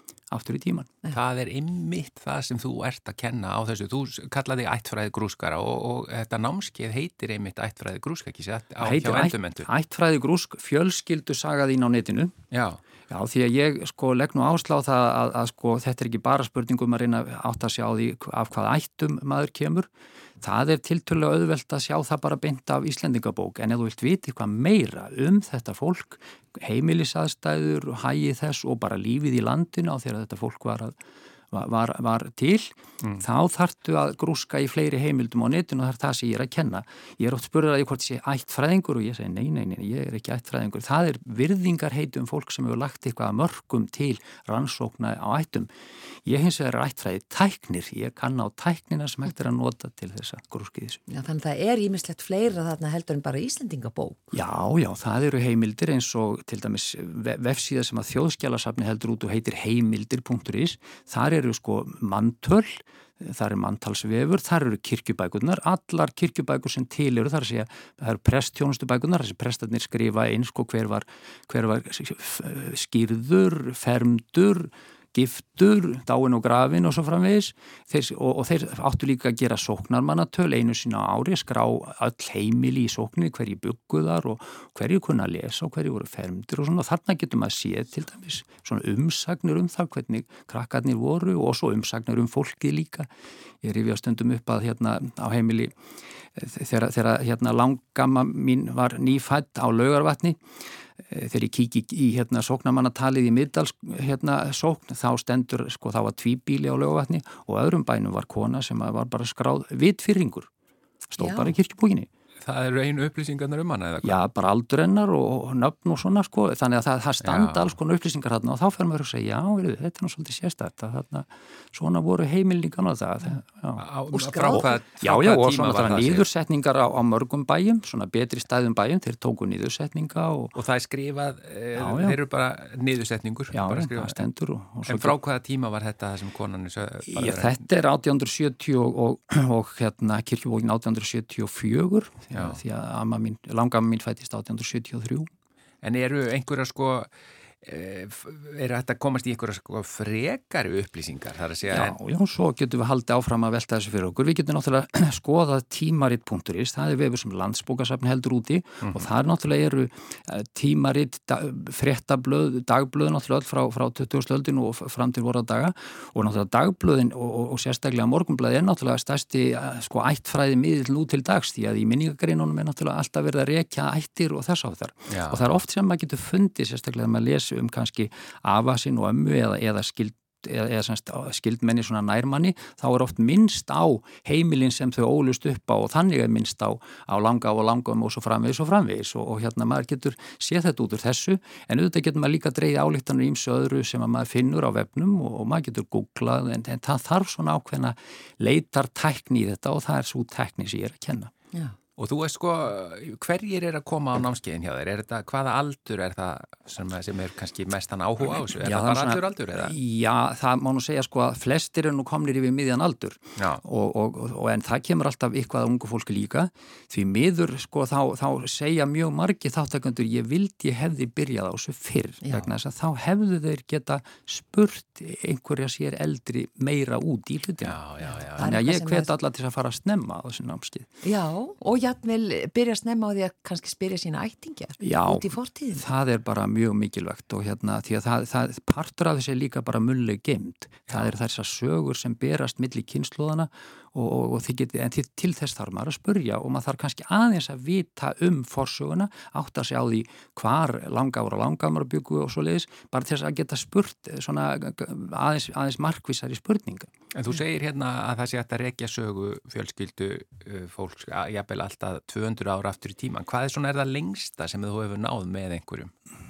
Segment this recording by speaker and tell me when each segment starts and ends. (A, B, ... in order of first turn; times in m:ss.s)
0:00.3-0:01.0 A
0:01.1-0:09.7 B
0:08.8-0:12.4 A
0:12.5-0:12.8 B
0:13.1-0:19.9 A
0:20.4-0:31.0 A
0:31.5-0:51.0 A
0:51.1-0:54.3 C
0:54.3-1:33.1 A
1:33.6-1:35.8 A
1:36.3-1:40.4 A
1:41.0-1:50.5 A
1:51.1-1:52.1 A
1:51.2-1:51.5 C
1:52.4-1:54.2 B
1:54.0-2:10.5 A
1:57.2-1:57.7 B
2:03.8-2:06.2 B
2:10.5-2:14.2 B
2:11.7-2:12.2 A
2:13.5-2:15.1 A
2:14.8-2:17.6 B
2:17.1-2:25.3 A
2:22.3-2:22.6 B
2:25.8-2:27.1 B
2:27.6-2:32.0 B
2:31.7-3:21.3 A
2:38.8-2:39.1 B
2:55.1-2:55.5 B
3:22.0-3:29.7 B
3:28.6-3:47.8 A
3:33.4-3:33.6 B
3:42.2-3:42.5 C
3:47.6-3:48.5 B
3:48.4-3:50.9 A
3:48.4-3:49.1 C
3:51.0-3:55.8 C
3:54.8-4:16.9 A
4:17.1-4:25.9 B